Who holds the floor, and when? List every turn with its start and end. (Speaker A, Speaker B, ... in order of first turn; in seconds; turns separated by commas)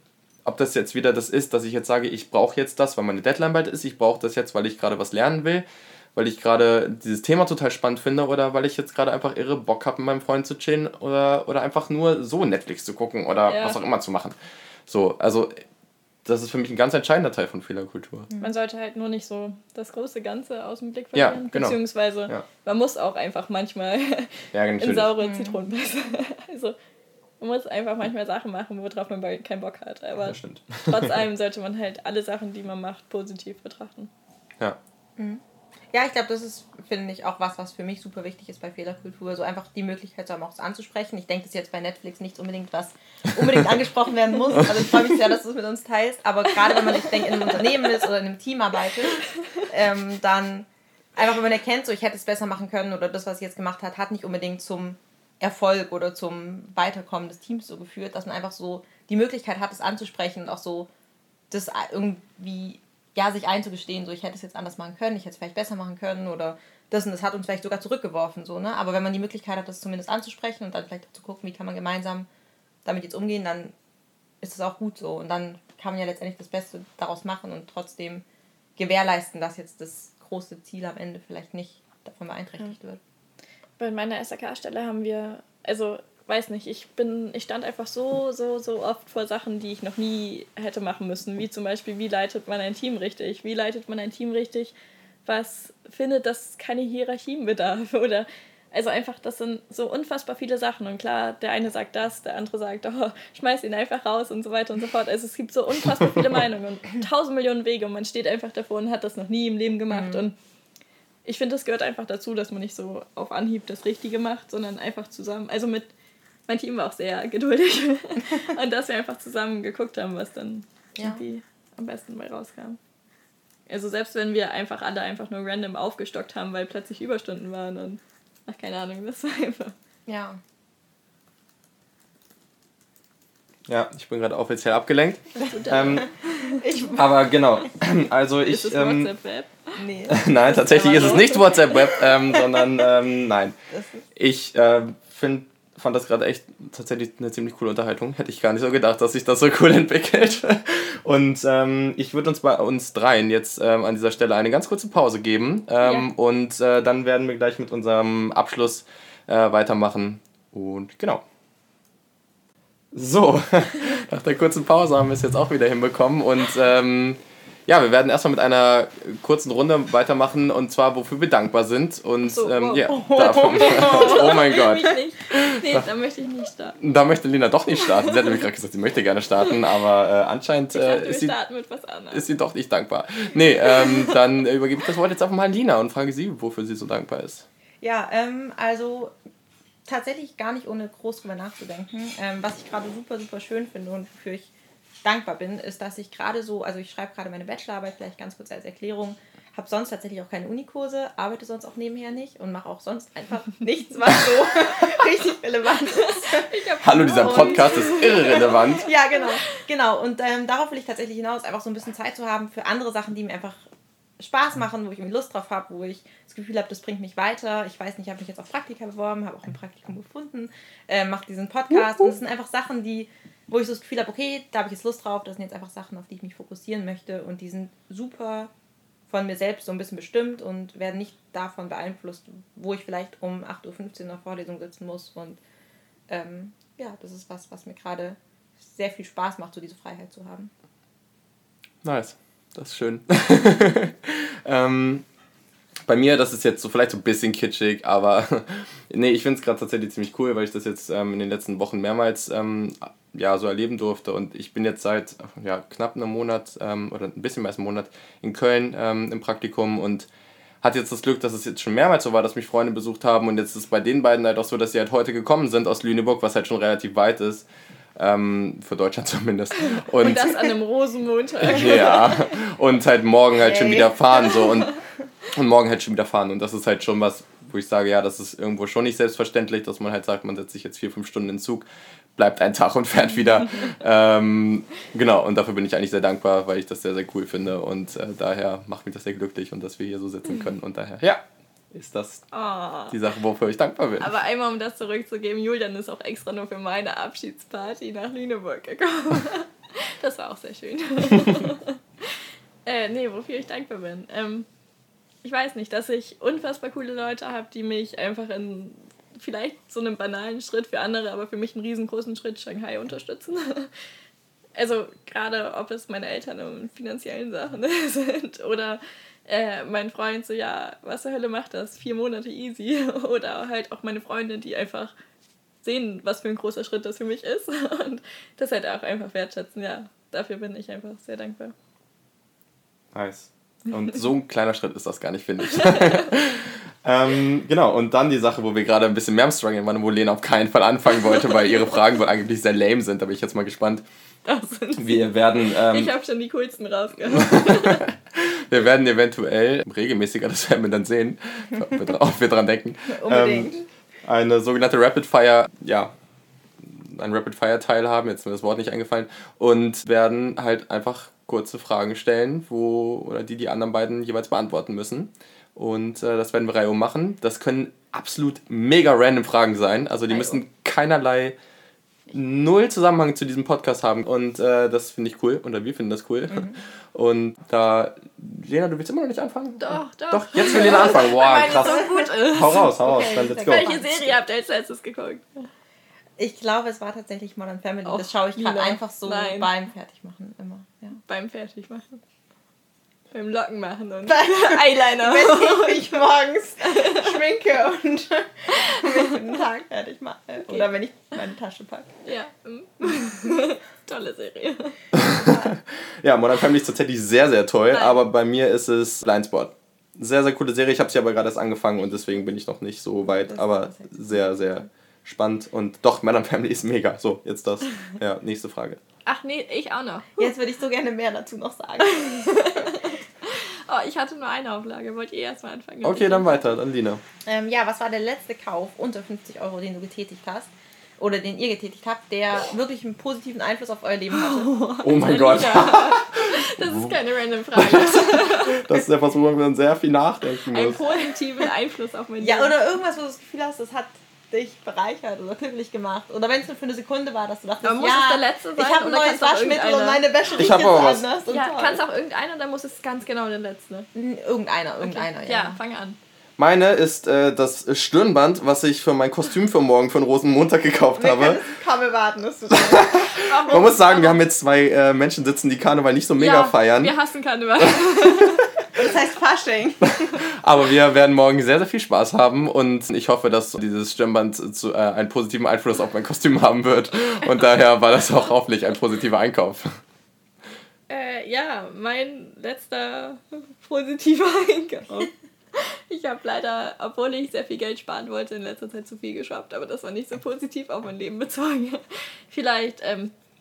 Speaker A: 0.5-14.4, Speaker B: 13.5-13.8, Speaker A: 14.9-15.6, Speaker A: 16.2-18.3, Speaker B: 18.4-26.8, Speaker A: 21.1-21.8, Speaker A: 24.5-25.1, Speaker C: 25.2-25.6, Speaker B: 27.4-34.1, Speaker A: 30.2-31.2, Speaker C: 35.2-60.9, Speaker C: 61.5-72.3, Speaker C: 72.8-73.7, Speaker C: 74.4-78.2, Speaker C: 78.8-83.0, Speaker B: 83.8-94.7, Speaker B: 95.3-110.3, Speaker C: 109.9-110.2, Speaker B: 111.2-115.9, Speaker B: 116.5-122.8, Speaker C: 121.0-121.2, Speaker B: 123.7-129.8, Speaker C: 130.1-130.4, Speaker A: 133.7-136.1, Speaker B: 135.4-136.7, Speaker C: 136.3-137.0, Speaker A: 136.9-139.1, Speaker B: 138.4-139.8, Speaker C: 139.8-142.6, Speaker A: 140.1-143.6, Speaker C: 143.7-144.0, Speaker A: 144.2-161.2, Speaker A: 162.9-175.9, Speaker B: 172.3-176.8, Speaker C: 172.9-174.4, Speaker A: 176.8-181.3, Speaker B: 177.8-178.2, Speaker B: 180.7-182.3, Speaker A: 182.1-187.5, Speaker B: 183.6-184.2, Speaker C: 187.8-189.1, Speaker C: 189.9-194.5, Speaker C: 195.0-206.6, Speaker B: 204.5-204.9, Speaker B: 205.9-209.2, Speaker A: 206.8-208.9, Speaker C: 207.2-213.6, Speaker C: 214.2-228.5, Speaker C: 229.1-235.4, Speaker C: 236.1-240.5, Speaker A: 241.8-245.1, Speaker A: 245.9-260.1, Speaker A: 260.6-270.4, Speaker B: 269.9-272.4, Speaker A: 271.4-281.7, Speaker C: 273.4-274.5, Speaker A: 282.2-292.2, Speaker B: 292.3-293.0, Speaker A: 292.9-294.1, Speaker B: 294.0-304.5, Speaker B: 305.2-313.7, Speaker B: 314.6-324.9, Speaker B: 325.6-331.5, Speaker A: 332.9-343.8, Speaker B: 335.5-336.2, Speaker B: 344.2-347.9, Speaker A: 344.8-345.9, Speaker A: 347.1-355.9, Speaker C: 352.9-353.6, Speaker A: 356.6-371.4, Speaker B: 370.1-370.4, Speaker A: 372.1-383.8, Speaker B: 379.6-385.3, Speaker C: 382.8-384.2, Speaker C: 386.2-391.0, Speaker B: 387.9-389.5, Speaker B: 391.1-392.0, Speaker B: 393.1-396.0, Speaker C: 394.1-401.9, Speaker B: 396.7-397.2, Speaker B: 398.6-399.2, Speaker B: 402.1-404.8, Speaker A: 404.9-418.8, Speaker C: 405.0-405.5, Speaker B: 407.7-408.0, Speaker C: 413.3-414.1, Speaker B: 419.1-420.3, Speaker C: 420.2-422.9, Speaker B: 421.8-426.5, Speaker A: 425.8-427.0, Speaker C: 427.3-434.5, Speaker B: 434.2-438.8, Speaker A: 434.8-437.0, Speaker A: 437.5-440.8, Speaker B: 440.5-442.6, Speaker C: 442.2-451.8, Speaker B: 447.6-450.6, Speaker A: 450.4-451.1, Speaker B: 451.3-453.9, Speaker C: 453.9-455.6, Speaker B: 454.8-456.0, Speaker A: 456.4-461.4, Speaker C: 461.0-463.0, Speaker A: 462.5-466.9, Speaker B: 463.1-464.2, Speaker B: 466.2-468.9, Speaker C: 468.8-470.2, Speaker A: 470.0-479.8, Speaker B: 480.9-493.1